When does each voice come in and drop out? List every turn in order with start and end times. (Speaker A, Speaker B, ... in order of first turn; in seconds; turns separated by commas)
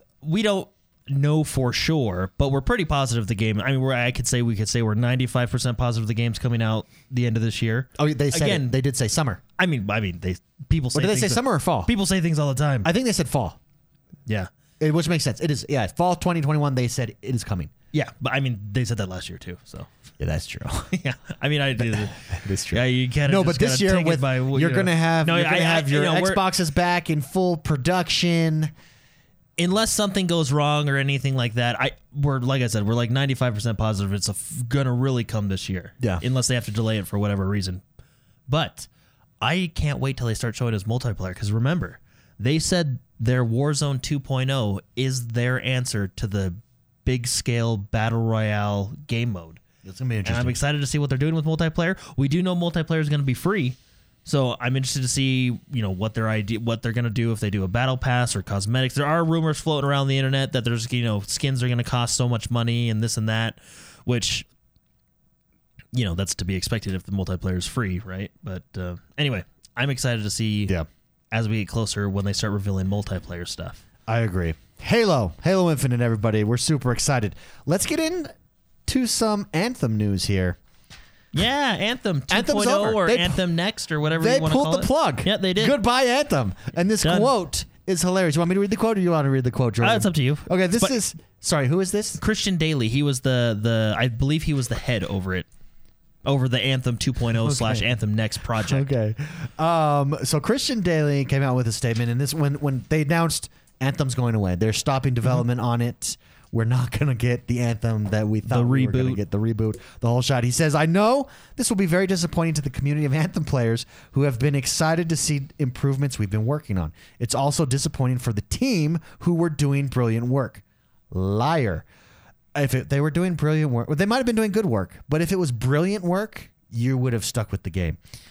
Speaker A: 0.2-8.8, Speaker B: 8.0-9.4, Speaker A: 9.6-12.9, Speaker B: 10.9-11.9, Speaker B: 12.8-13.6, Speaker B: 14.8-17.7, Speaker A: 17.9-19.9, Speaker B: 20.2-20.9, Speaker A: 20.9-26.4, Speaker B: 21.8-28.7, Speaker A: 29.6-37.8, Speaker A: 38.5-38.9, Speaker A: 39.4-49.6, Speaker B: 49.8-50.6, Speaker A: 50.2-64.5, Speaker A: 65.9-70.7, Speaker A: 71.3-73.8, Speaker B: 74.1-78.3, Speaker B: 78.9-80.6, Speaker A: 81.3-85.8, Speaker B: 82.3-83.4, Speaker B: 84.2-92.2, Speaker A: 87.0-87.3, Speaker A: 89.8-91.0, Speaker A: 92.2-95.5, Speaker A: 96.2-98.9, Speaker B: 97.4-97.9, Speaker B: 98.5-121.9, Speaker A: 108.4-109.2, Speaker B: 122.5-128.0